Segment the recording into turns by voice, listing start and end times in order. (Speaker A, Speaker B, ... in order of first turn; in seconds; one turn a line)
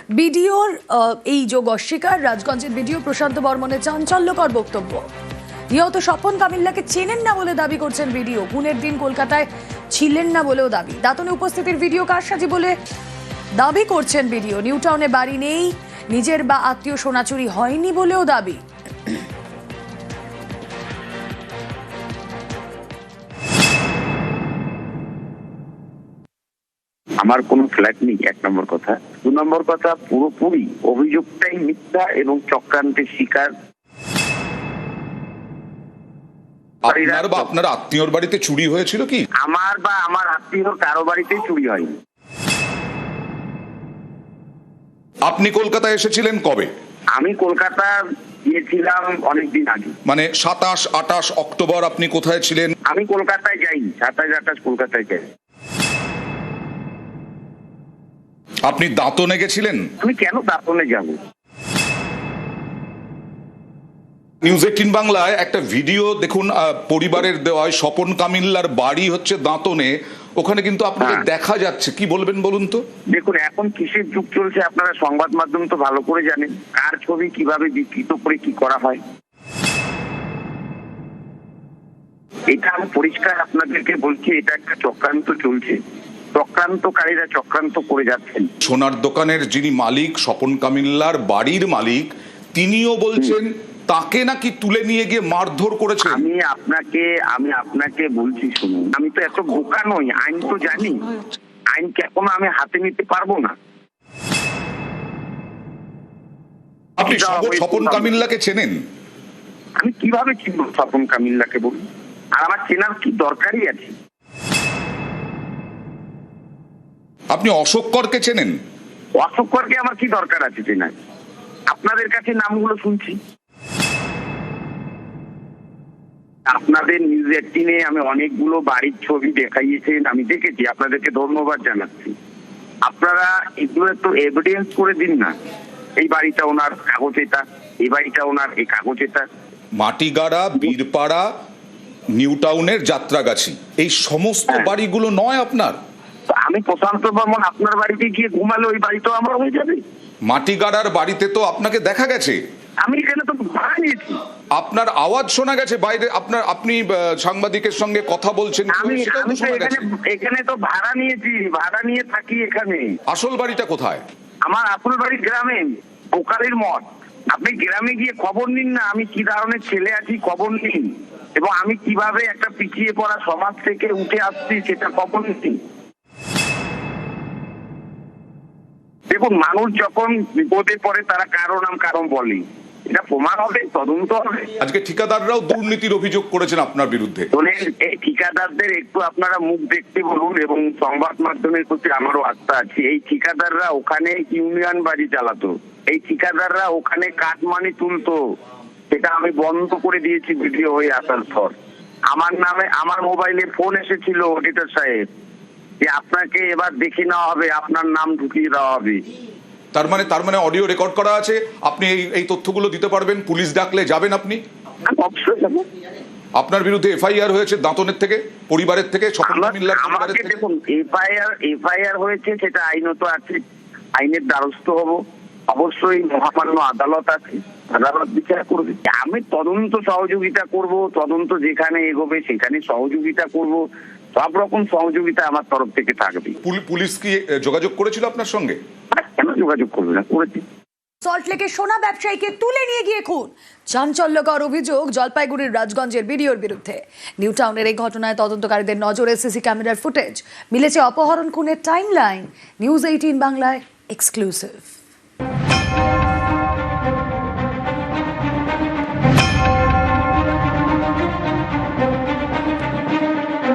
Speaker A: 0.1-5.1
Speaker A: 5.7-12.8
Speaker A: 13.6-18.6
Speaker B: 27.2-33.5
Speaker B: 36.8-37.5
Speaker C: 36.9-39.2
Speaker B: 39.4-42.0
Speaker C: 45.3-46.7
Speaker B: 47.1-48.0
Speaker B: 48.5-49.9
Speaker C: 50.0-52.7
Speaker B: 52.9-55.3
Speaker C: 58.6-59.8
Speaker B: 60.0-61.2
Speaker C: 64.4-72.8
Speaker B: 71.0-71.2
Speaker B: 73.1-79.0
Speaker B: 82.5-85.8
Speaker B: 86.3-88.5
Speaker C: 88.6-96.3
Speaker B: 96.0-101.2
Speaker B: 101.7-103.5
Speaker C: 107.0-108.8
Speaker B: 107.0-108.3
Speaker B: 109.8-111.8
Speaker B: 112.3-113.9
Speaker C: 117.3-118.5
Speaker B: 119.2-121.0
Speaker B: 121.7-123.2
Speaker B: 126.5-132.2
Speaker B: 132.8-135.3
Speaker B: 136.0-139.3
Speaker C: 139.8-141.2
Speaker C: 142.2-145.8
Speaker B: 146.3-149.8
Speaker C: 150.3-152.4
Speaker B: 152.8-154.2
Speaker C: 154.6-159.9
Speaker B: 158.7-162.9
Speaker C: 163.1-164.0
Speaker B: 164.4-170.8
Speaker B: 171.4-175.6
Speaker B: 179.1-184.5
Speaker C: 184.6-187.3
Speaker B: 187.3-198.2
Speaker B: 198.9-201.5
Speaker B: 202.1-205.1
Speaker B: 205.8-209.0
Speaker C: 209.7-214.4
Speaker B: 214.9-215.7
Speaker C: 216.4-220.4
Speaker B: 219.2-223.4
Speaker B: 224.0-233.6
Speaker B: 234.2-236.4
Speaker C: 236.4-238.6
Speaker B: 238.9-240.4
Speaker A: 241.0-254.7